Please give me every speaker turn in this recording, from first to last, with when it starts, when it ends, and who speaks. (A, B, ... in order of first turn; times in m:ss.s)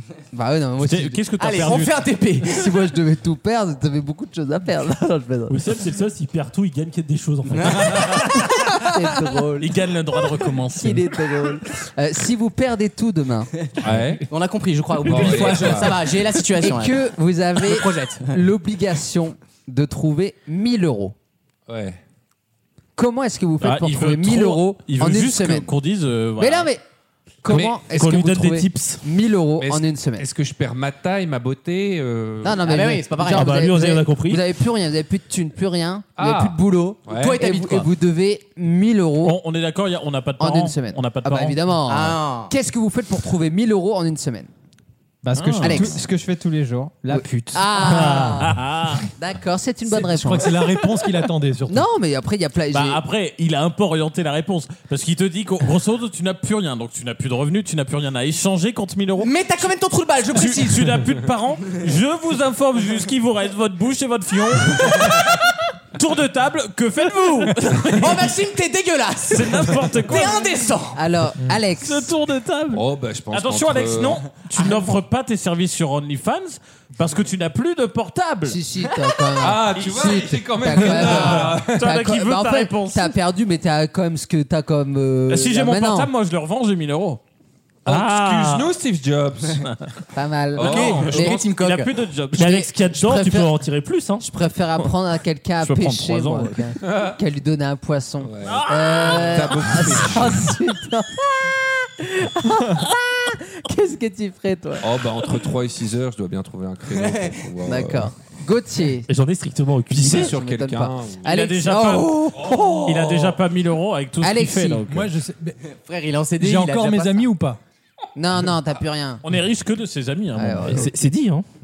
0:00.3-0:01.3 A
0:00.8-0:02.0 B
0:01.4-0:02.7 C
0:02.4-0:05.6 A
0:05.5-0:08.3 D
0:07.5-0:08.2 C
0:07.9-0:08.7 B
0:08.5-0:09.8 A
0:09.6-0:11.0 B
0:10.8-0:13.5 A
0:13.8-0:14.2 E
0:14.3-0:17.0 C
0:15.0-0:16.1 E
0:16.5-0:21.2 A
0:17.6-0:18.4 C
0:21.7-0:22.0 E
0:23.0-0:25.7 A
0:23.6-0:26.7 B
0:26.4-0:26.8 A
0:27.4-0:30.3 A
0:27.5-0:28.0 E
0:27.9-0:29.0 D
0:29.6-0:32.6 E
0:32.4-0:39.4 A
0:32.6-0:33.7 C
0:33.4-0:34.4 D
0:36.2-0:37.4 E
0:37.1-0:37.9 C
0:39.2-0:41.6 B
0:40.4-0:44.5 A
0:41.9-0:42.5 C
0:45.2-0:47.7 F
0:45.3-0:46.0 B
0:45.6-0:46.0 A
0:47.1-0:48.6 A
0:47.8-0:49.0 B
0:49.2-0:50.9 A
0:49.9-0:51.9 G
0:51.7-0:53.0 A
0:52.7-0:59.3 B
0:59.2-1:01.0 C
1:00.3-1:05.3 B
1:05.9-1:08.3 B
1:07.9-1:11.0 C
1:09.3-1:10.4 B
1:10.9-1:12.1 A
1:11.8-1:18.6 B
1:12.7-1:14.2 E
1:18.5-1:26.1 A
1:19.4-1:22.0 E
1:19.8-1:20.0 B
1:20.7-1:23.2 B
1:25.3-1:27.2 B
1:27.8-1:28.7 B
1:27.9-1:29.7 E
1:30.1-1:31.4 A
1:30.6-1:31.2 E
1:30.6-1:31.9 C
1:30.6-1:32.5 B
1:32.3-1:33.5 A
1:32.3-1:34.3 D
1:34.2-1:44.9 A
1:35.6-1:36.6 B
1:36.8-1:37.2 E
1:38.2-1:40.6 E
1:38.4-1:39.6 B
1:44.8-1:48.1 E
1:47.0-1:47.4 C
1:47.7-1:49.1 A
1:49.1-1:50.4 D
1:49.9-1:51.4 E
1:50.0-1:53.1 A
1:51.2-1:52.2 B
1:52.4-1:53.4 E
1:52.9-1:55.1 B
1:54.2-1:54.9 A
1:54.9-1:55.6 G
1:55.7-1:57.3 C
1:56.4-1:57.6 G
1:58.2-1:59.2 A
1:59.2-2:00.9 B
2:00.4-2:01.0 A
2:00.7-2:01.5 D